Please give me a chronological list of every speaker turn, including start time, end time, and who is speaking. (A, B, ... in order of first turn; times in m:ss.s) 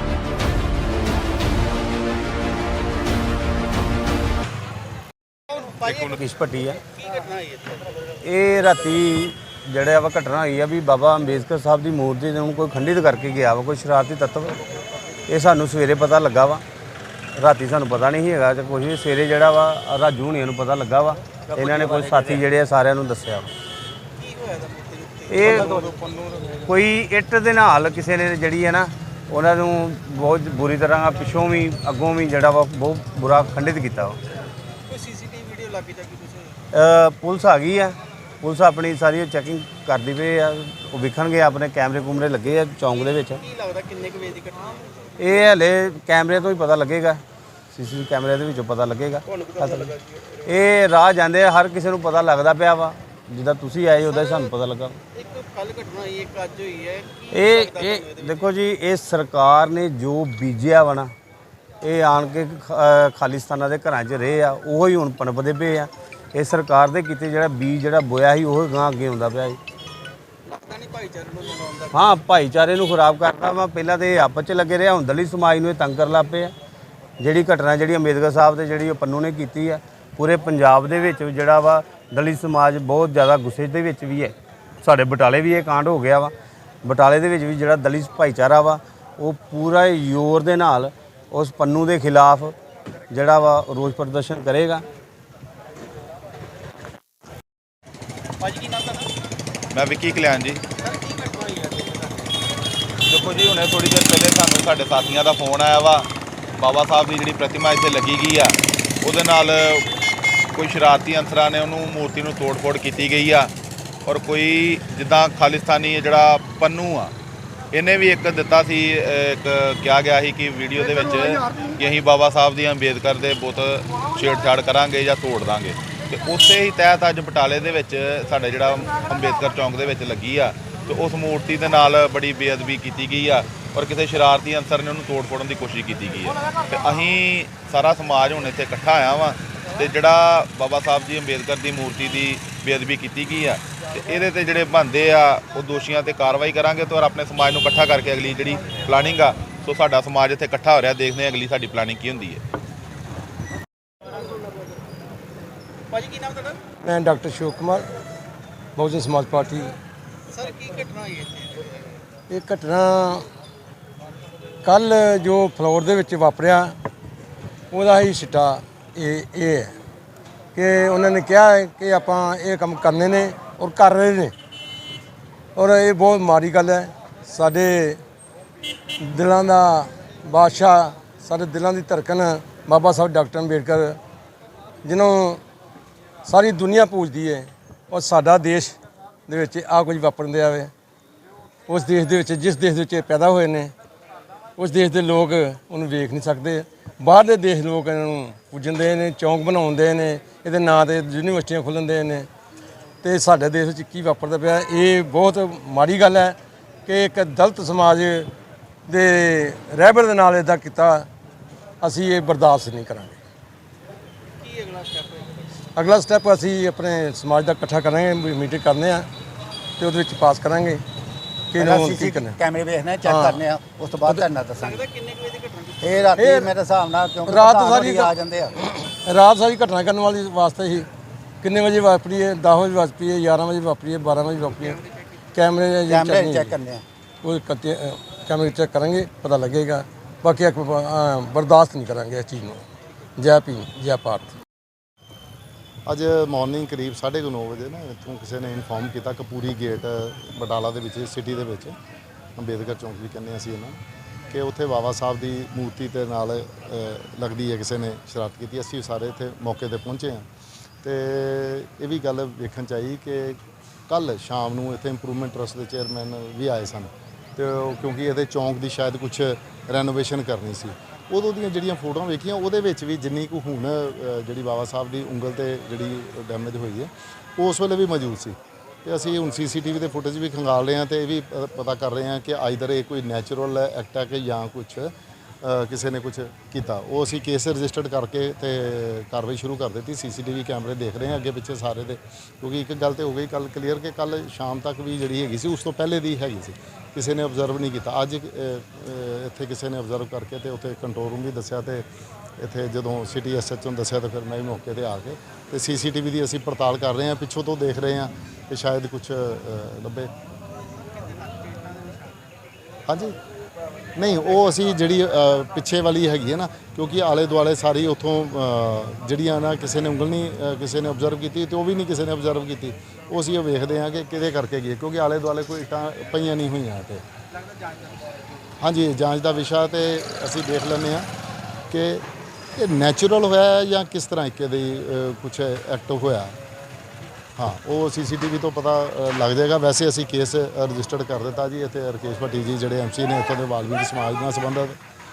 0:05.5-0:06.0 A
0:05.8-0:06.2 B
0:06.1-0:06.8 C
0:07.0-0:07.8 A
0:08.2-0:14.6 C
0:15.3-0:16.6 C
0:17.4-0:23.5 C
0:24.2-0:26.2 A
0:25.3-0:26.0 C
0:26.6-0:34.2 C
0:34.9-0:36.4 A
0:36.7-0:43.4 C
0:43.5-0:44.9 A
0:45.2-0:55.0 C
0:55.2-0:58.3 A
0:57.3-1:01.1 C
1:01.8-1:09.6 C
1:10.5-1:12.0 A
1:11.9-1:16.5 C
1:17.2-1:26.3 C
1:26.8-1:32.6 C
1:33.1-1:34.8 C
1:38.4-1:39.1 A
1:39.7-1:40.6 B
1:40.8-1:42.2 A
1:43.1-1:49.9 B
1:50.5-1:53.5 B
1:54.0-1:57.1 B
1:57.7-2:32.4 B
2:35.9-2:36.6 A
2:36.8-2:37.9 D
2:38.8-2:39.8 D
2:40.3-2:41.8 A
2:42.3-2:43.3 D
2:44.6-2:46.8 D
2:47.7-2:49.8 D
2:50.6-2:54.3 D
2:55.6-2:58.0 D
2:59.0-3:04.0 D
3:04.8-3:05.4 D
3:06.2-3:10.7 D
3:11.7-3:13.7 D
3:14.6-3:22.3 D
3:23.0-3:28.3 D
3:28.9-3:31.1 D
3:31.8-3:33.2 D
3:34.4-3:35.4 A
3:35.8-3:39.1 D
3:39.8-3:40.8 D
3:41.5-3:42.4 D
3:41.6-3:44.8 E
3:43.0-3:43.4 D
3:44.6-3:46.0 A
3:45.8-3:48.5 E
3:46.2-3:46.5 D
3:47.2-3:50.9 D
3:51.4-3:54.8 D
3:55.3-3:56.6 D
3:55.9-3:56.8 E
3:57.2-4:02.6 D
4:03.2-4:04.4 D
4:05.9-4:11.8 F
4:12.4-4:13.8 F
4:14.3-4:20.3 F
4:20.8-5:01.9 F
5:02.4-5:10.1 F
5:11.0-5:12.1 A
5:12.9-5:13.2 F
5:14.0-5:27.0 F
5:28.6-5:31.1 F
5:31.7-5:36.4 F
5:37.4-5:44.8 F